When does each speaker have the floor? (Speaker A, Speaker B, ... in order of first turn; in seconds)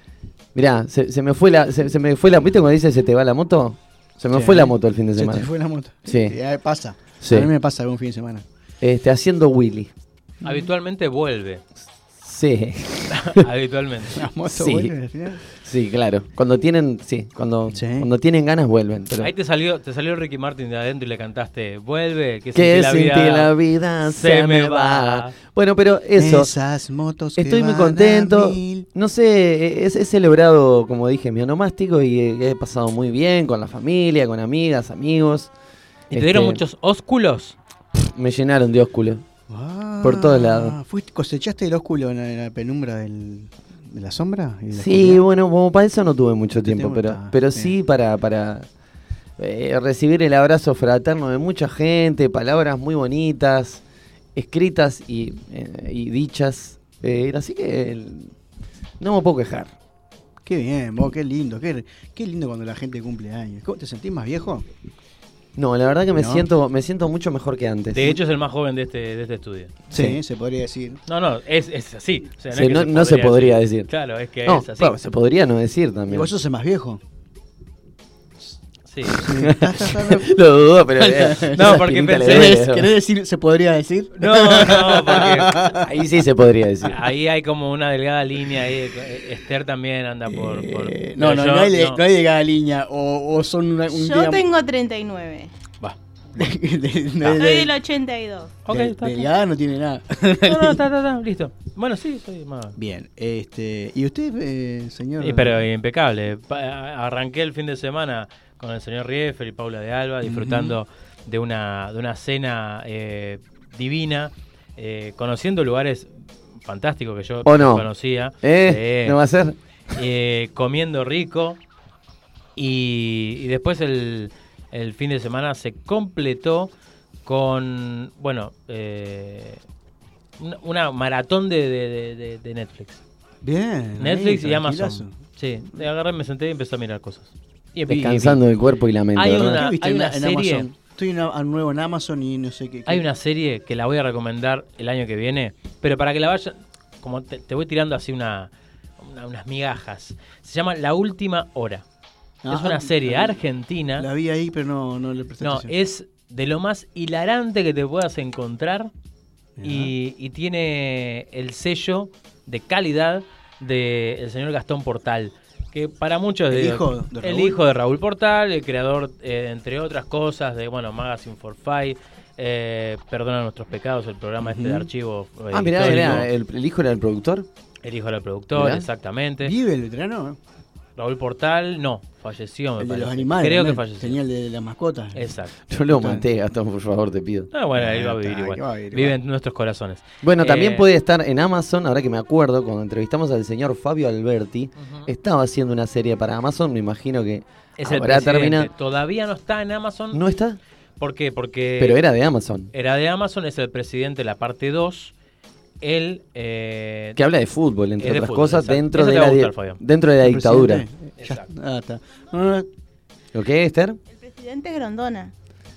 Speaker A: 0.6-5.5, 6.1-6.4, 7.2-7.5, 8.8-9.9, 12.2-13.4, 14.5-14.9, 15.5-19.3, 22.6-26.5, 27.4-35.5, 36.1-36.6, 38.0-39.2, 40.0-40.8, 44.7-48.7, 49.4-53.8, 54.4-58.3, 59.0-59.7, 65.6-68.1, 69.9-70.2, 72.5-73.9, 74.5-76.3, 79.2-82.9, 85.8-87.0, 117.5-117.9, 118.4-119.6, 137.9-139.7, 175.5-177.5, 178.5-178.8, 185.9-187.5, 190.2-198.7, 200.1-200.6, 201.8-202.7, 207.2-210.8, 213.3-214.0
Speaker B: 4.3-8.4, 10.4-10.7, 14.2-15.4, 17.7-18.1, 26.2-28.9, 39.5-45.2, 46.6-47.7, 60.4-64.7, 66.2-66.5, 69.9-71.0, 76.1-77.0, 79.2-80.4, 81.0-86.1, 90.3-94.5, 96.3-97.7, 98.7-100.8, 102.8-105.6, 110.2-110.8, 133.4-135.1, 139.3-143.1, 152.4-153.4, 154.0-155.7, 159.6-159.9, 166.5-167.6, 174.4-174.9, 175.8-176.3, 179.4-180.4, 182.8-186.3, 187.8-189.2, 210.2-212.7
Speaker C: 10.4-11.6, 13.2-14.2, 19.2-23.5, 24.1-25.3, 36.1-37.6, 67.9-69.7, 71.1-75.0, 78.9-79.3, 81.5-82.6, 84.2-85.6, 86.9-92.0, 98.6-99.3, 100.4-102.8, 105.2-119.2, 119.9-121.6, 122.6-126.7, 127.2-129.6, 130.4-133.0, 134.0-138.4, 139.2-140.7, 142.9-151.8, 152.5-154.1, 155.4-158.9, 159.6-176.3, 177.8-179.5, 181.0-184.2, 185.2-185.6, 187.5-190.8, 194.8-195.1, 197.8-200.2, 201.0-202.0, 202.7-205.1, 205.8-207.2, 208.0-209.8, 211.2-211.5
Speaker D: 93.9-95.5, 97.4-98.6, 214.1-215.3